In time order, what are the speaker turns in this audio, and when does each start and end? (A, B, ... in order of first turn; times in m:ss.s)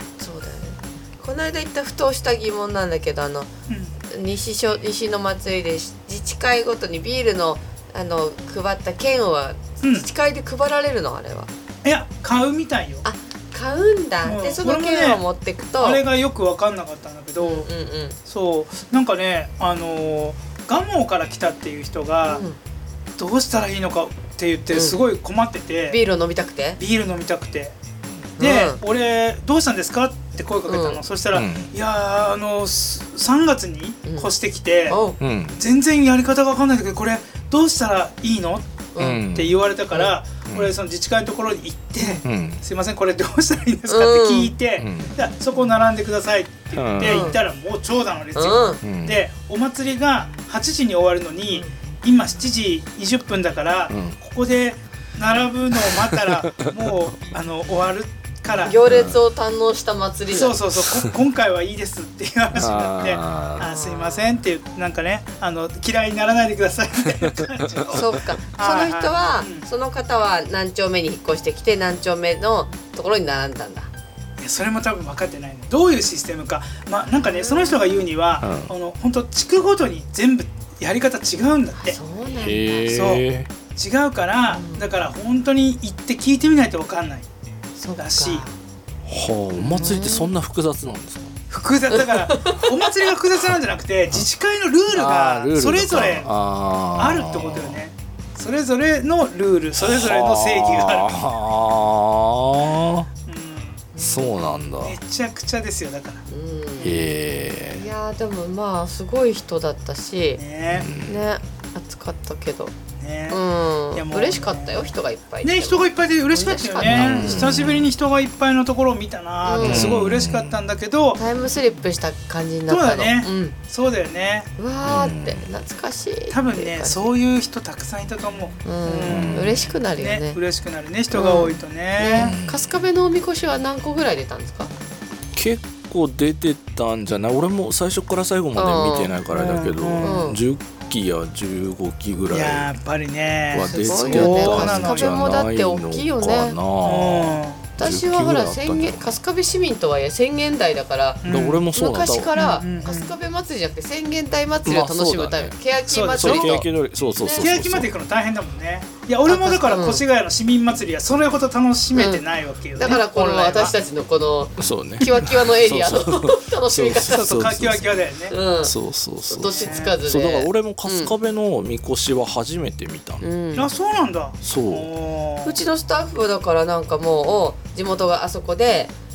0:00.2-0:03.5 A
0:04.0-0:11.5 A
0:09.8-0:10.1 B
0:11.8-0:13.0 B
0:13.0-0:16.0 A
0:14.2-0:15.2 B
0:15.8-0:17.7 B
0:17.4-0:18.2 A
0:18.3-0:22.4 B
0:22.3-0:22.6 A
0:23.2-0:26.0 B
0:24.7-0:25.0 A
0:25.9-0:26.8 A
0:26.8-0:27.8 B
0:28.4-0:28.8 A
0:28.4-0:35.0 B
0:30.7-0:31.0 A
0:31.3-0:31.7 C
0:34.1-0:34.3 A
0:34.9-0:35.2 A
0:35.2-0:35.6 C
0:35.6-0:58.8 B
0:38.9-0:39.2 A
0:39.0-0:39.6 C
0:42.2-0:42.6 C
0:43.9-0:44.5 A
0:44.8-0:45.1 C
0:46.7-0:47.3 C
0:47.0-0:47.4 A
0:48.4-0:48.8 A
0:48.8-0:49.2 C
0:53.9-0:54.2 C
0:55.8-0:56.8 C
0:58.6-1:00.6 A
0:58.8-0:59.2 C
1:00.3-1:09.6 B
1:02.5-1:03.6 C
1:03.6-1:04.4 A
1:07.2-1:07.9 C
1:07.9-1:13.9 A
1:14.4-1:22.0 B
1:17.1-1:18.0 A
1:18.4-1:18.7 C
1:21.8-1:23.0 A
1:22.4-1:23.5 C
1:22.9-1:23.2 B
1:23.8-1:27.3 B
1:24.5-1:24.9 A
1:27.8-1:28.5 A
1:28.0-1:28.4 B
1:29.1-1:31.4 C
1:29.6-1:30.3 A
1:31.5-1:36.3 B
1:31.9-1:32.9 A
1:34.9-1:37.8 C
1:35.9-1:36.2 A
1:37.0-1:41.2 B
1:39.8-1:43.1 C
1:43.3-1:43.9 B
1:43.9-1:44.3 A
1:44.0-1:45.0 C
1:44.8-1:46.2 B
1:46.3-1:47.1 A
1:46.8-1:47.9 C
1:47.7-1:50.4 A
1:50.4-1:50.9 B
1:50.7-1:51.2 C
1:51.0-1:52.7 A
1:53.0-1:53.4 B
1:53.3-1:57.5 A
1:53.9-2:01.2 B
1:56.8-1:57.9 C
1:59.4-1:59.9 A
1:59.6-2:00.6 C
2:01.2-2:03.6 A
2:02.7-2:04.5 B
2:04.6-2:07.1 A
2:04.8-2:05.4 C
2:06.3-2:12.4 B
2:08.6-2:10.4 A
2:09.1-2:09.7 C
2:11.1-2:14.7 A
2:12.2-2:12.9 C
2:15.3-2:22.7 C
2:18.6-2:20.4 A
2:19.3-2:20.2 B
2:22.3-2:25.2 B
2:23.5-2:29.1 C
2:23.6-2:26.6 A
2:26.8-2:27.6 B
2:27.8-2:36.7 A
2:31.2-2:31.7 B
2:31.3-2:32.4 C
2:32.4-2:33.2 B
2:34.6-2:35.6 C
2:35.9-2:36.6 B
2:36.2-2:37.9 C
2:37.2-2:37.5 A
2:37.4-2:43.8 B
2:39.3-2:40.0 A
2:41.9-2:42.2 A
2:42.8-2:47.4 A
2:44.6-2:47.9 C
2:47.0-2:48.4 B
2:48.3-2:48.7 A
2:48.6-2:53.2 C
2:49.3-2:51.1 A
2:49.4-2:50.0 B
2:53.2-2:53.7 A
2:53.6-2:55.6 B
2:54.4-2:54.9 C
2:55.4-2:58.9 A